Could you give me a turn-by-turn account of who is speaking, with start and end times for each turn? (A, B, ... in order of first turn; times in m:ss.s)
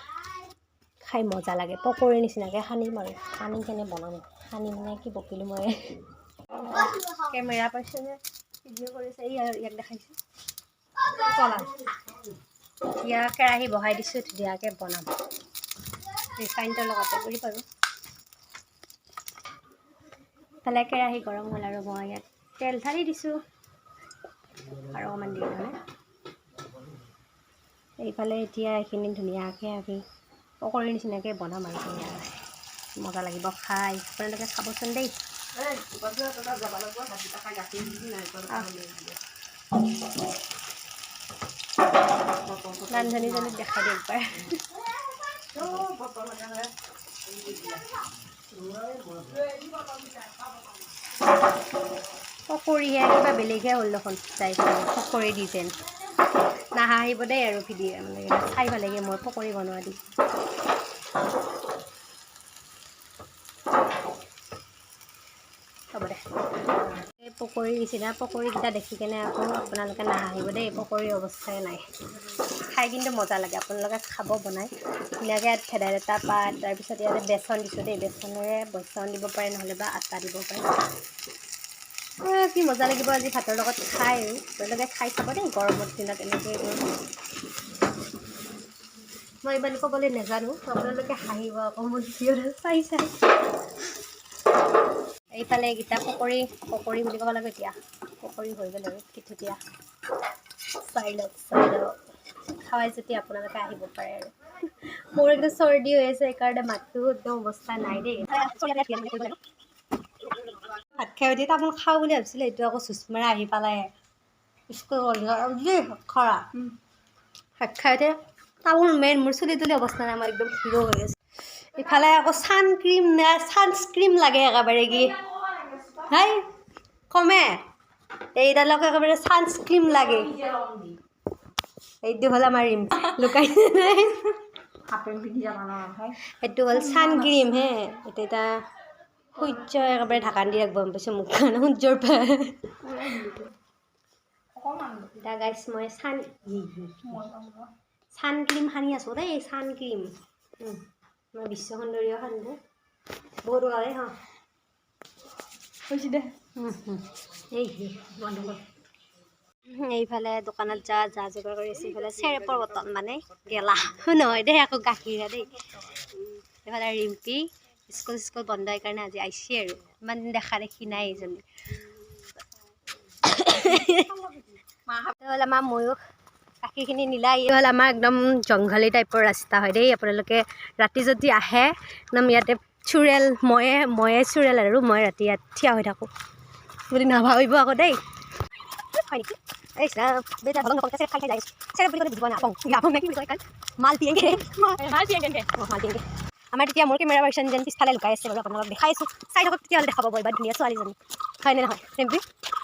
0:01.0-0:10.2 A
0:11.1-0:11.8 A
0:13.0-0:15.1 A
0:16.3-0:17.6 A
0:20.6-0:23.4 A
0:24.7-0:25.8 A
0:28.0-0:30.0 A
0:30.6-0:32.3 A
0:33.0-0:35.1 A
0:35.6-0:39.2 B
0:38.5-0:38.8 A
0:42.5-0:43.0 B
0:42.9-0:44.8 A
0:45.5-0:46.7 B
0:47.4-0:47.9 B
0:48.6-0:50.3 B
0:52.5-0:55.7 A
0:56.8-1:00.0 A
1:05.9-1:06.2 A
1:07.0-1:11.8 A
1:12.7-1:14.7 A
1:15.2-1:20.7 A
1:22.2-1:26.8 A
1:29.4-1:33.2 A
1:35.3-1:39.6 A
1:40.8-1:41.9 A
1:42.5-1:49.4 A
1:50.4-1:53.9 A
1:54.7-1:56.6 A
1:57.6-2:05.2 A
2:05.9-2:06.5 A
2:07.1-2:07.6 A
2:08.4-2:10.4 A
2:12.0-2:14.4 A
2:14.9-2:16.2 B
2:16.2-2:18.5 A
2:19.4-2:22.8 A
2:22.8-2:23.5 B
2:24.6-2:25.1 B
2:25.1-2:27.2 A
2:27.0-2:27.7 B
2:28.1-2:32.6 A
2:33.4-2:34.2 A
2:35.9-2:36.4 B
2:36.5-2:38.7 A
2:39.7-2:45.6 A
2:46.6-2:51.5 A
2:53.2-2:54.3 A
2:54.9-2:56.0 A
2:56.6-3:06.1 A
3:06.9-3:08.0 A
3:08.7-3:22.2 A
3:14.7-3:15.5 B